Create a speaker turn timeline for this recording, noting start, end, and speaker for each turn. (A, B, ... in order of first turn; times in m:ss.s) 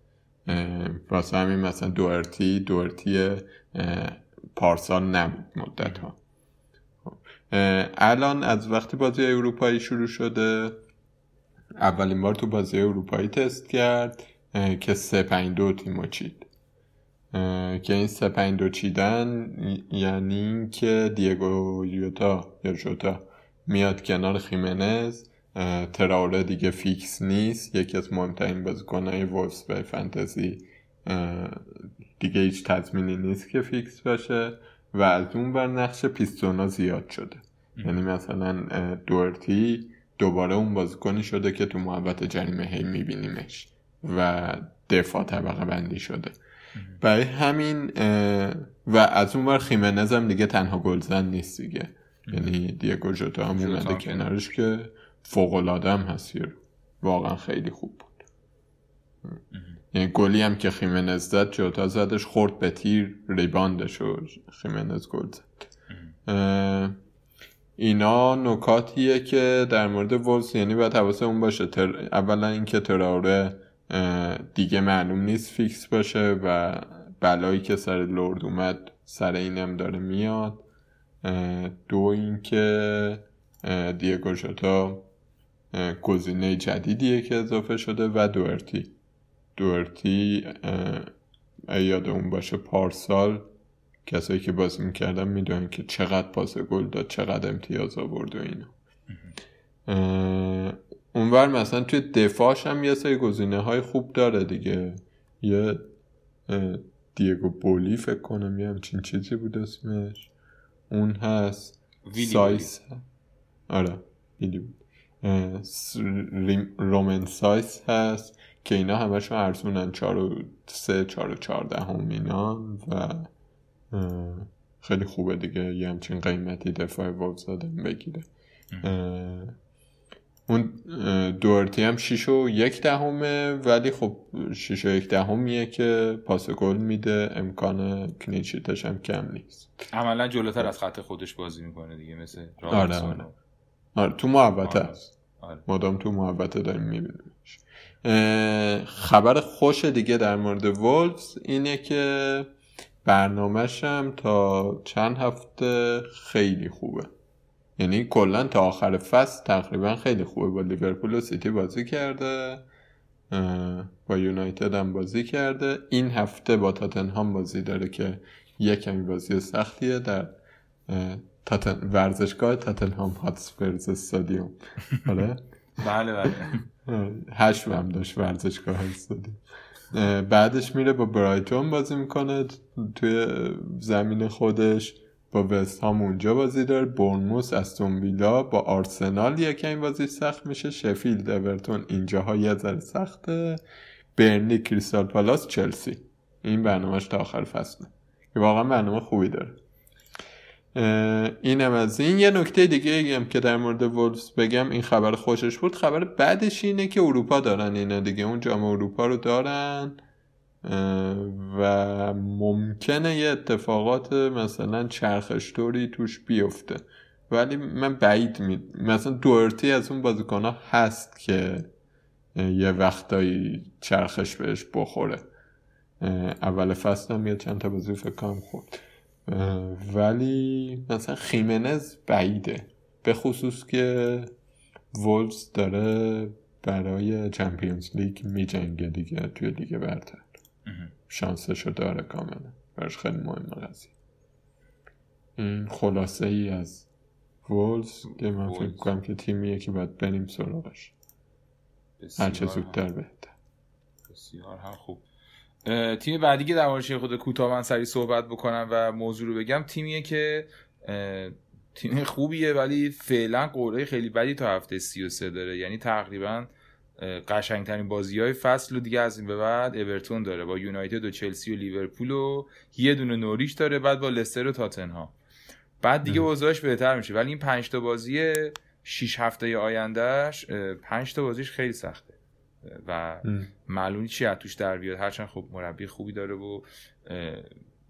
0:00.5-0:06.2 A
0:07.0-0:10.8 A
0:11.8-0:16.5 A
0:17.3-0:46.4 A
0:37.8-0:38.0 B
0:46.8-0:47.0 B
0:47.0-0:58.2 A
0:53.5-0:54.3 B
0:59.5-0:59.8 B
0:59.9-1:05.5 A
1:06.3-1:07.0 A
1:07.8-1:20.6 A
1:21.2-1:25.1 A
1:25.7-1:28.9 A
1:29.6-1:31.1 A
1:31.7-1:33.5 A
1:34.1-1:38.7 A
1:39.9-1:45.9 A
1:46.5-1:50.3 A
1:50.9-1:53.0 A
1:52.0-1:52.7 B
1:53.7-2:03.3 A
2:03.9-2:08.3 A
2:08.8-2:09.6 A
2:10.5-2:19.7 A
2:19.9-2:23.4 B
2:22.7-2:23.3 A
2:24.0-2:25.0 A
2:24.6-2:25.6 B
2:25.7-2:32.5 A
2:33.0-2:37.1 A
2:37.8-2:42.6 A
2:43.3-2:50.4 A
2:50.9-2:55.4 A
2:55.8-2:56.6 B
2:56.9-2:59.4 A
2:59.9-3:13.6 A
3:14.2-3:19.6 A
3:20.8-3:30.0 A
3:30.6-3:41.7 A
3:42.4-3:45.2 A
3:46.0-3:54.3 A
3:54.9-4:00.3 A
4:00.7-4:00.9 B
4:01.1-4:03.9 A
4:05.4-4:06.9 A
4:07.4-4:10.9 A
4:08.1-4:08.9 B
4:12.0-4:12.8 B
4:12.2-4:13.3 A
4:14.1-4:15.0 B
4:15.6-4:35.1 B
4:35.8-4:47.5 B